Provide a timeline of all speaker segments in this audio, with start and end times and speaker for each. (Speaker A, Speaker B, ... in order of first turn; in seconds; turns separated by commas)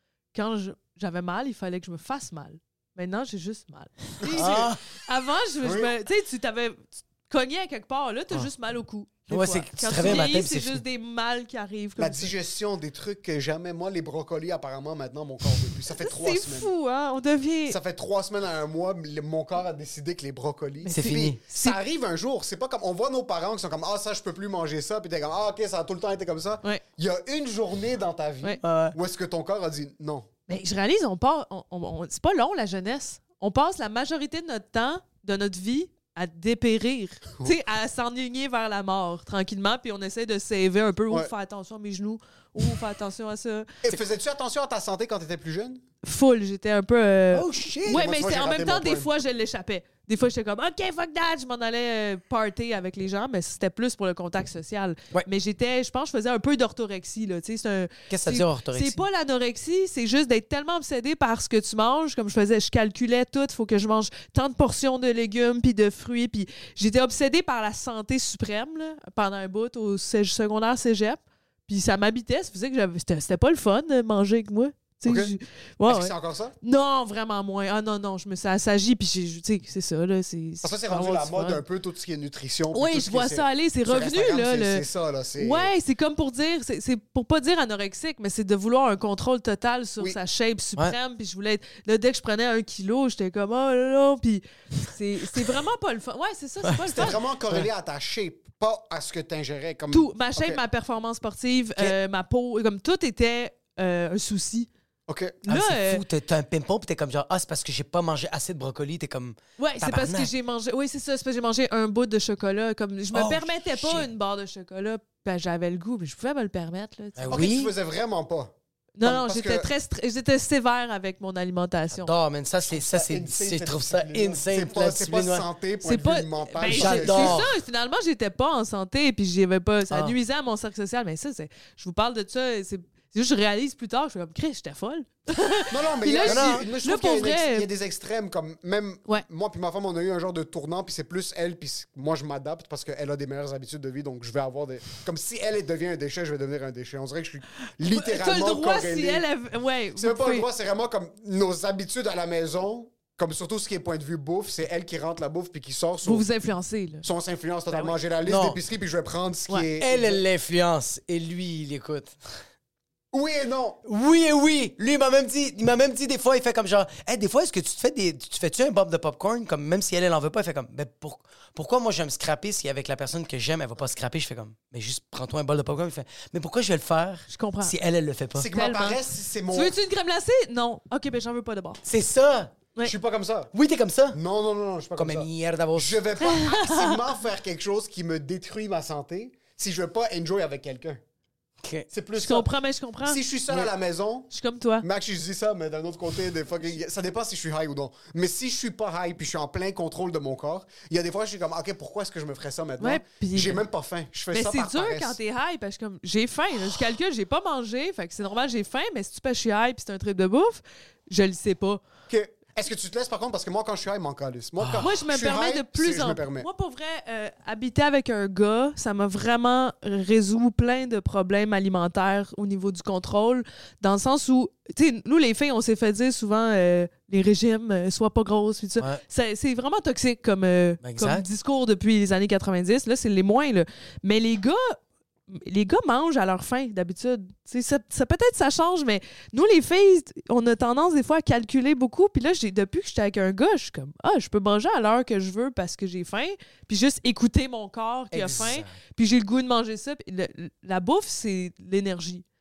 Speaker A: 0.3-12.3, Speaker B: 4.2-4.7, Speaker C: 4.2-4.8, Speaker B: 5.6-5.9, Speaker C: 9.3-10.8, Speaker B: 10.0-10.3, Speaker B: 12.0-16.7, Speaker A: 16.1-17.8, Speaker B: 17.7-30.3, Speaker A: 20.8-21.8, Speaker C: 20.9-21.4, Speaker C: 28.6-28.9, Speaker A: 30.5-43.7, Speaker B: 43.8-45.8, Speaker A: 46.0-81.6, Speaker C: 47.3-48.0, Speaker B: 47.9-49.1, Speaker C: 58.1-59.0, Speaker B: 75.0-75.3, Speaker B: 75.9-76.5, Speaker B: 80.6-85.7, Speaker A: 82.7-84.8, Speaker A: 85.4-97.2, Speaker C: 96.7-97.7, Speaker B: 96.9-100.6, Speaker A: 99.9-104.7, Speaker B: 105.1-105.4, Speaker A: 105.5-106.0, Speaker C: 105.5-110.3, Speaker A: 109.6-117.4, Speaker C: 113.1-114.1, Speaker C: 117.2-117.7, Speaker B: 117.3-119.7, Speaker A: 119.0-122.1, Speaker C: 121.9-125.5, Speaker B: 122.7-127.5, Speaker A: 125.8-137.7, Speaker C: 126.7-127.5, Speaker B: 135.7-149.3, Speaker C: 136.2-136.7, Speaker A: 147.9-150.5, Speaker B: 150.0-156.3, Speaker A: 156.0-157.1, Speaker B: 157.0-160.2, Speaker C: 158.3-158.6, Speaker C: 159.8-162.2, Speaker B: 163.1-163.8, Speaker C: 163.8-178.5, Speaker A: 177.3-177.7, Speaker B: 178.3-179.8, Speaker A: 178.5-179.0, Speaker A: 179.5-181.8, Speaker C: 181.8-182.5, Speaker B: 182.8-183.5, Speaker C: 183.5-184.2, Speaker B: 184.1-191.0, Speaker C: 185.0-186.0, Speaker A: 186.2-187.0, Speaker B: 191.9-192.5, Speaker A: 192.2-193.7, Speaker B: 193.0-205.2, Speaker A: 194.3-194.9, Speaker A: 202.8-203.6, Speaker A: 204.3-211.8, Speaker B: 212.1-216.5, Speaker C: 214.6-214.9, Speaker A: 214.8-234.8, Speaker C: 230.8-231.3, Speaker A: 235.3-252.2, Speaker C: 248.1-248.8